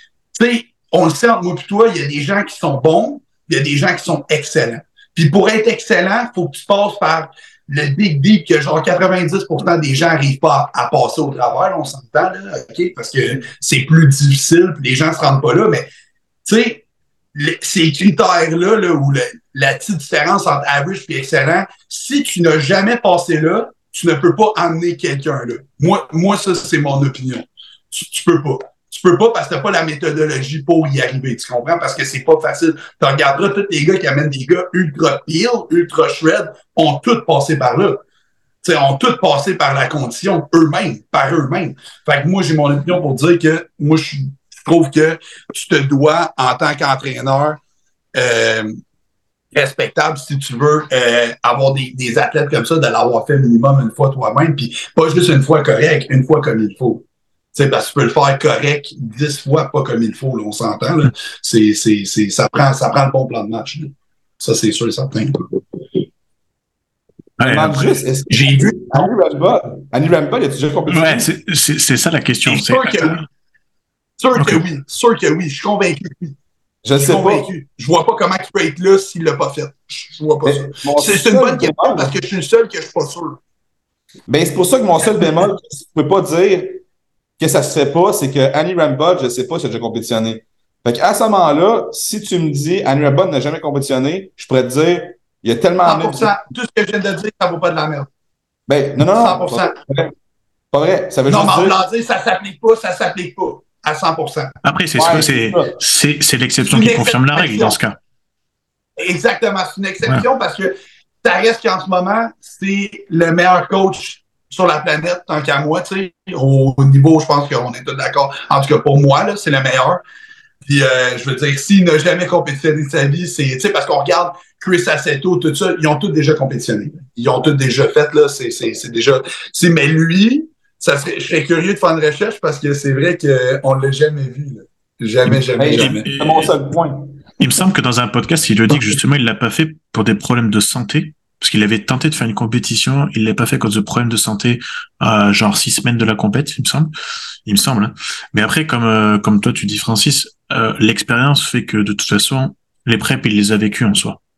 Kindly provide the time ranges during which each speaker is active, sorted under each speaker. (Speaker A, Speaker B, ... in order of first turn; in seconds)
Speaker A: 0.3-15.8, 16.4-16.8, 17.3-38.0, 38.6-47.6, 48.1-48.8, 49.5-65.6, 68.3-69.1, 72.5-73.2, 74.2-76.3, 77.0-83.4, 95.8-98.1, 99.0-99.8, 101.3-104.5, 106.7-107.8, 109.0-120.0, 120.6-136.1
Speaker B: 67.4-68.0, 70.9-73.2, 74.3-74.6, 104.6-108.0, 135.3-136.5, 137.4-146.9, 147.4-154.2
Speaker C: 67.4-71.3, 76.8-77.5, 80.5-82.1, 84.3-86.8, 87.4-96.3, 98.7-100.1, 100.7-101.8, 105.0-105.8, 135.6-137.3